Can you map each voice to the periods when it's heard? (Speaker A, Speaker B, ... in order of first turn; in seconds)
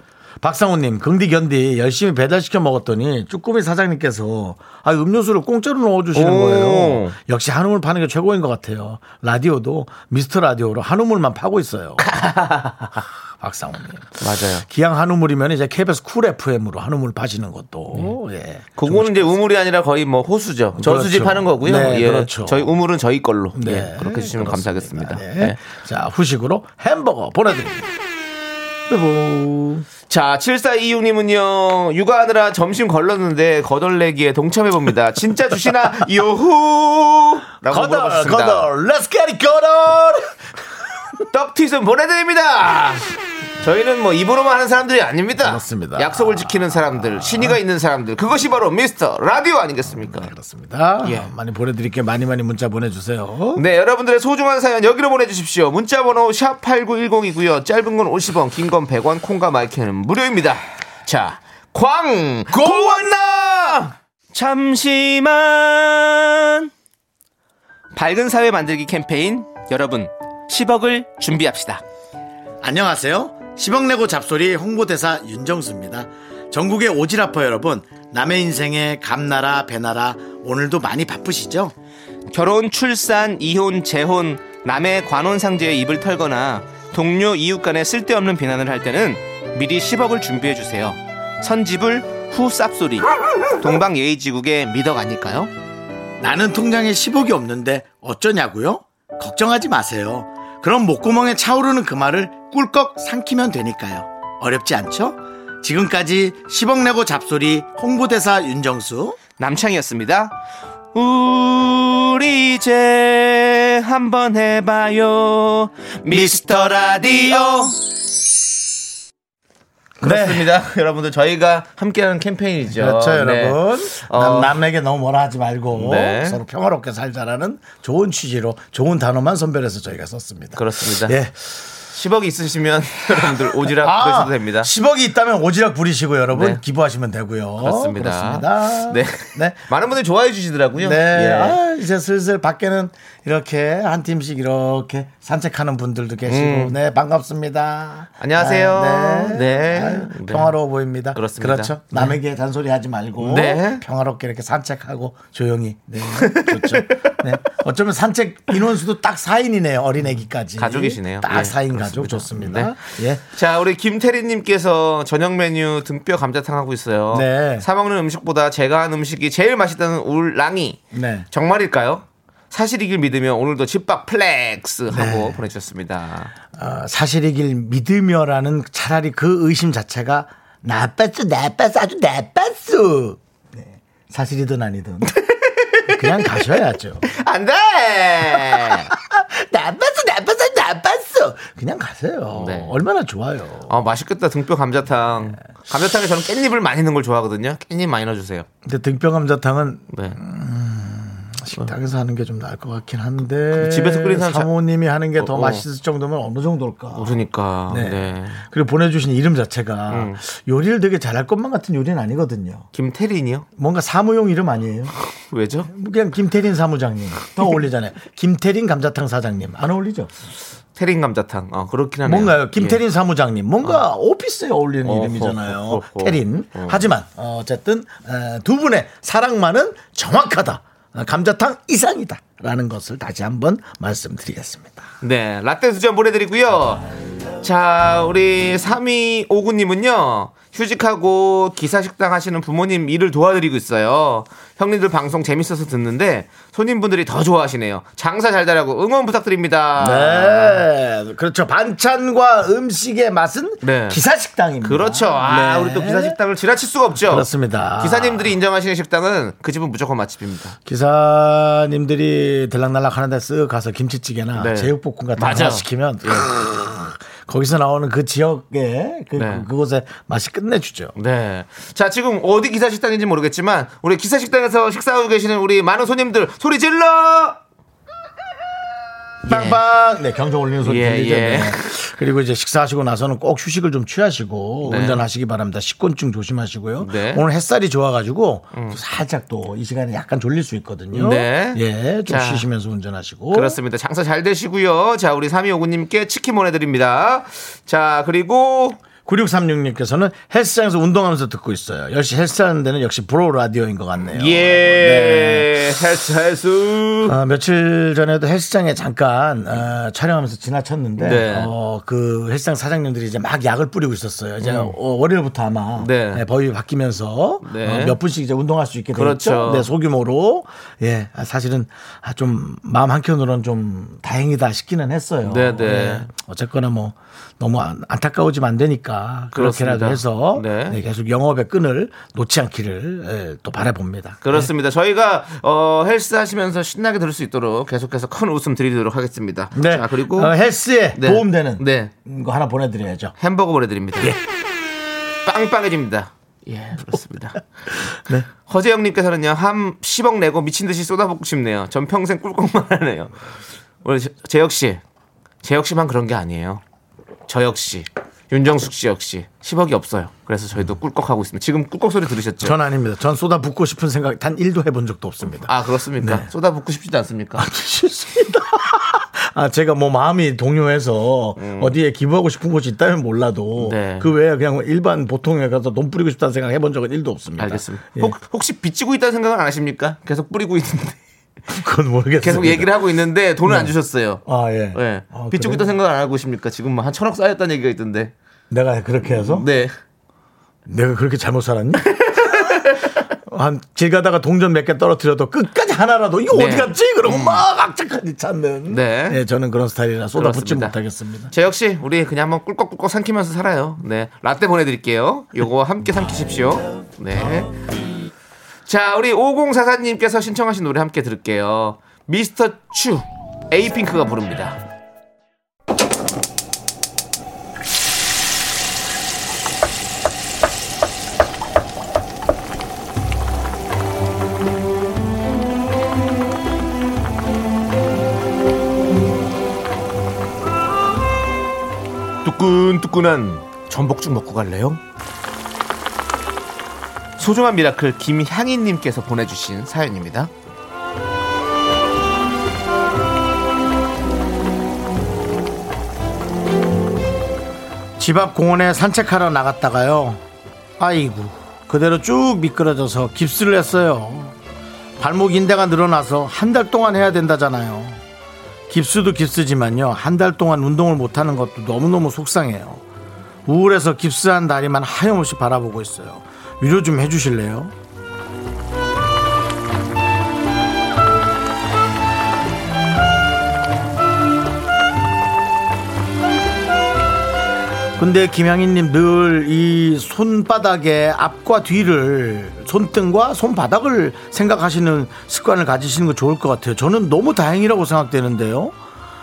Speaker A: 0.4-12.1, 13.4-19.4, 20.8-22.7, 23.5-27.9, 28.9-29.9, 37.7-40.4, 45.4-47.6, 49.9-53.6, 62.5-63.5, 72.6-81.7, 96.2-109.2, 116.1-117.5, 120.0-120.5, 122.6-131.3, 133.5-139.6, 140.8-163.2, 167.1-167.7, 170.9-171.3, 174.9-175.4, 176.5-185.1, 185.9-187.0, 188.3-193.8, 198.6-212.7, 213.6-214.9, 215.7-220.1, 222.0-234.9, 249.8-256.2, 257.0-258.3, 260.6-270.9, 279.2-293.6, 299.0-305.5, 307.0-334.5, 339.5-343.1, 347.9-348.3, 362.4-366.3, 367.4-378.1, 381.5-382.7, 383.4-383.7, 384.2-385.7, 388.5-389.4, 390.7-401.3, 448.0-450.2, 450.8-454.3, 455.0-458.0, 458.7-462.8, 463.4-467.7, 478.0-488.7
Speaker B: 6.1-7.1, 12.0-13.0, 14.2-14.6, 18.8-25.6, 30.1-38.7, 41.3-43.0, 43.6-50.3, 51.0-51.3, 53.5-66.7, 67.9-71.8, 82.3-95.5, 109.4-110.3, 110.9-117.8, 120.0-124.5, 125.7-126.4, 130.5-131.2, 131.9-134.7, 136.3-136.6, 137.6-141.6, 146.3-146.8, 148.2-150.5, 151.1-152.2, 153.2-153.8, 156.1-157.2, 160.6-176.3, 185.0-188.9, 192.3-192.8, 193.7-198.4, 199.9-200.2, 203.6-204.5, 205.2-205.6, 206.9-208.4, 209.9-210.2, 212.7-213.4, 215.1-215.7, 220.7-222.8, 224.8-226.8, 235.0-236.9, 237.4-250.6, 253.6-254.0, 254.6-257.3, 257.8-260.6, 264.4-266.3, 269.1-269.4, 270.9-277.4, 279.2-279.6, 280.6-281.6, 284.6-285.0, 286.8-287.2, 290.9-292.4, 293.3-298.8, 304.1-307.1, 311.0-311.5, 314.4-314.8, 315.8-316.2, 317.4-318.0, 318.9-319.7, 325.2-326.1, 329.3-330.8, 334.2-340.3, 340.9-341.9, 343.2-344.1, 345.2-347.4, 348.4-353.1, 353.8-354.8, 355.4-356.6, 357.3-362.6, 365.4-367.5, 371.4-371.7, 373.6-374.1, 377.4-381.0, 382.2-384.2, 384.7-388.1, 389.1-389.7, 391.8-393.1, 396.3-397.4, 398.7-399.2, 400.1-400.8, 401.3-407.5, 408.7-414.6, 432.2-434.8, 437.2-440.3